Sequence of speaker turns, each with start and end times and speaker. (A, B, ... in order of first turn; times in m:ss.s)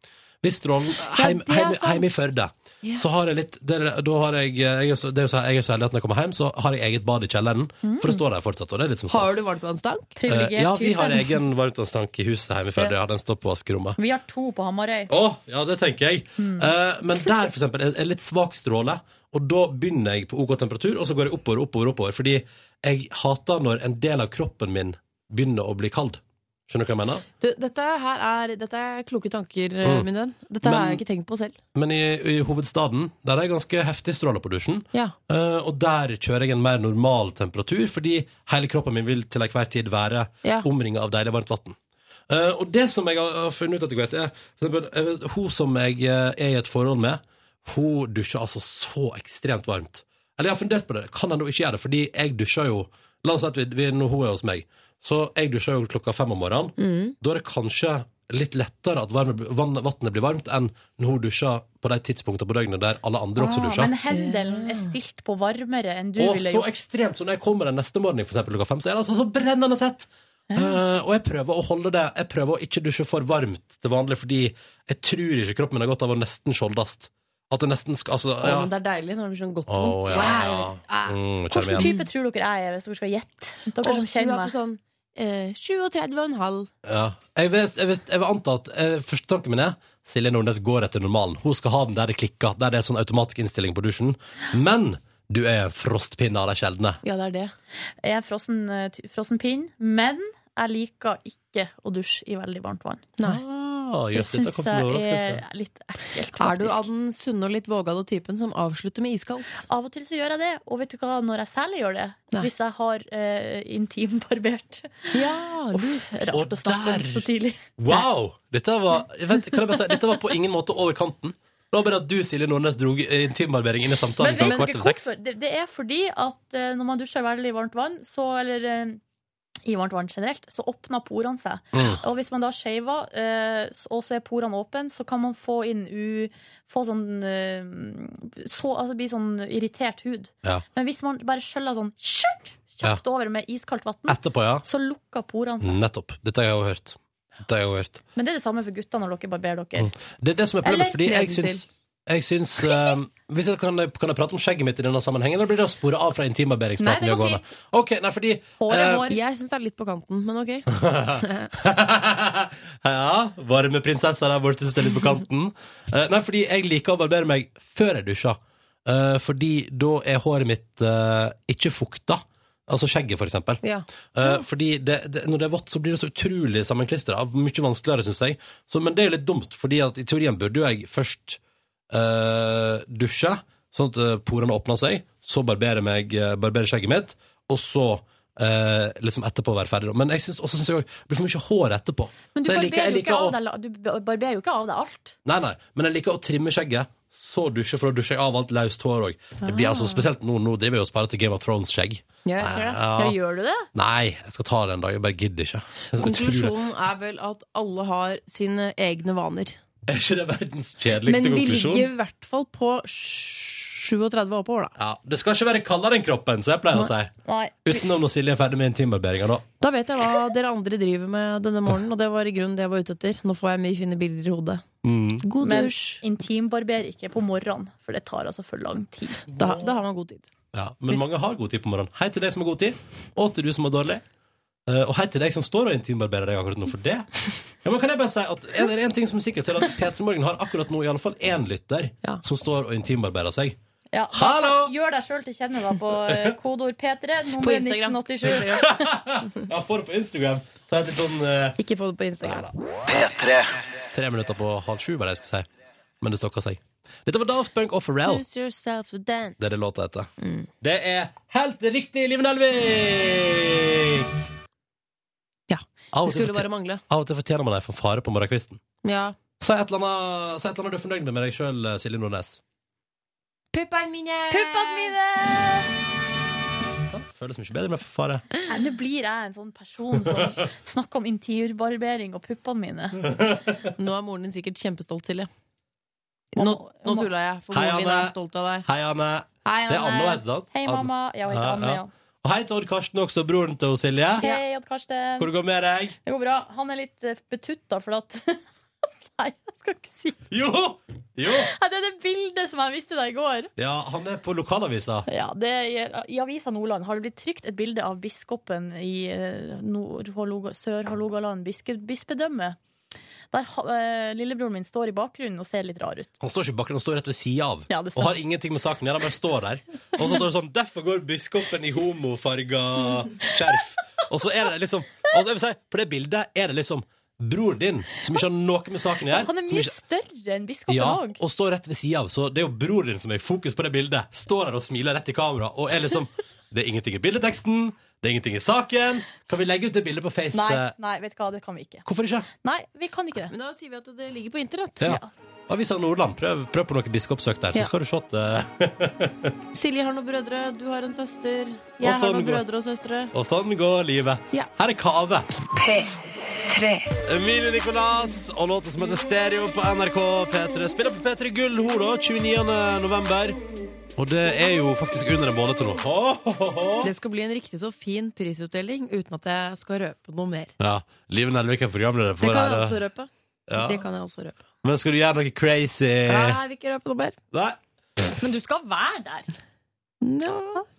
0:00.4-0:09.4 A
0:01.0-0:02.0 B
0:09.1-0:10.1 B
0:10.2-0:11.2 C
0:10.3-0:14.0 A
0:14.0-0:15.1 C
0:15.1-0:27.2 A
0:16.4-0:16.7 C
0:27.4-0:31.6 B
0:30.6-0:31.0 A
0:31.7-0:41.8 A
0:42.3-1:03.9 A
0:56.8-0:57.2 B
1:03.4-1:06.7 C
1:04.1-1:04.9 B
1:06.2-1:18.7 A
1:18.4-1:22.1 B
1:19.7-1:21.9 A
1:20.2-1:20.5 C
1:21.5-1:24.5 C
1:23.8-1:26.7 B
1:26.8-1:37.0 A
1:37.0-1:37.5 B
1:38.0-1:43.1 C
1:43.2-1:43.4 B
1:43.2-1:45.4 A
1:44.1-1:46.9 C
1:46.4-1:49.6 B
1:49.7-1:55.2 C
1:55.1-1:56.2 B
1:55.7-1:57.6 C
1:56.3-1:57.2 A
1:57.8-2:05.1 A
2:04.2-2:09.0 C
2:09.6-2:25.8 C
2:11.7-2:12.0 A
2:24.1-2:24.6 A
2:25.6-2:28.0 A
2:28.2-2:29.9 C
2:29.8-2:39.1 A
2:30.6-2:31.0 C
2:31.0-2:31.6 B
2:36.8-2:37.5 C
2:38.6-2:39.2 C
2:39.1-2:40.7 B
2:40.7-2:53.6 A
2:41.2-2:41.5 B
2:53.6-2:54.4 B
2:54.1-3:01.4 A
3:01.9-3:13.4 A
3:12.3-3:15.2 C
3:15.2-3:23.2 A
3:19.4-3:20.0 B
3:22.2-3:22.6 B
3:22.4-3:23.7 C
3:23.7-3:26.6 A
3:26.0-3:29.6 B
3:29.9-3:31.9 A
3:31.0-3:34.7 B
3:34.8-3:37.1 A
3:37.2-3:37.8 C
3:37.6-3:39.4 A
3:39.6-3:44.6 B
3:44.8-3:45.2 A
3:45.2-3:46.0 B
3:45.4-3:49.2 C
3:49.3-3:49.7 A
3:49.3-3:50.3 B
3:50.5-3:54.0 A
3:54.7-3:57.1 A
3:57.6-4:03.6 A
4:03.9-4:08.9 C
4:04.1-4:04.7 A
4:06.0-4:06.3 A
4:07.4-4:08.7 B
4:08.2-4:11.6 A
4:11.6-4:12.5 B
4:12.2-4:12.5 A
4:12.8-4:13.5 D
4:13.9-4:15.5 A
4:16.0-4:18.2 A
4:18.0-4:19.4 B
4:19.4-4:24.2 A
4:20.2-4:20.5 B
4:25.5-4:26.8 B
4:25.9-4:28.6 A
4:28.8-4:29.2 B
4:29.4-4:32.4 A
4:33.5-4:34.9 B
4:34.3-4:35.7 C
4:36.9-4:38.2 A
4:38.5-4:43.0 C
4:43.0-4:43.6 A
4:43.8-4:45.3 B
4:46.3-4:48.7 B
4:46.4-4:47.1 C
4:47.5-4:54.2 A
4:49.4-4:50.2 B
4:50.5-4:51.9 C
4:54.2-4:55.3 C
4:55.2-4:56.0 A
4:56.0-4:58.4 C
4:59.2-5:00.2 C
5:00.3-5:01.5 A
5:01.3-5:03.5 C
5:03.6-5:05.0 A
5:05.1-5:12.6 C
5:13.3-5:16.1 C
5:16.2-5:29.8 A
5:17.7-5:18.1 C
5:29.1-5:31.2 C
5:30.7-5:40.7 A
5:40.3-5:41.8 C
5:41.8-5:42.3 A
5:42.4-5:43.3 C
5:43.3-5:45.0 B
5:44.8-5:49.3 A
5:44.8-5:45.1 C
5:49.5-5:53.1 B
5:51.8-5:52.4 A
5:53.1-5:55.3 A
5:55.5-5:56.9 D
5:57.0-6:03.4 A
6:04.0-6:06.9 A
6:06.8-6:10.5 B
6:10.6-6:12.8 A
6:12.2-6:14.4 B
6:13.5-6:13.8 A
6:14.6-6:16.4 A
6:16.0-6:17.2 B
6:17.3-6:17.6 A
6:18.2-6:19.3 C
6:20.0-6:20.6 B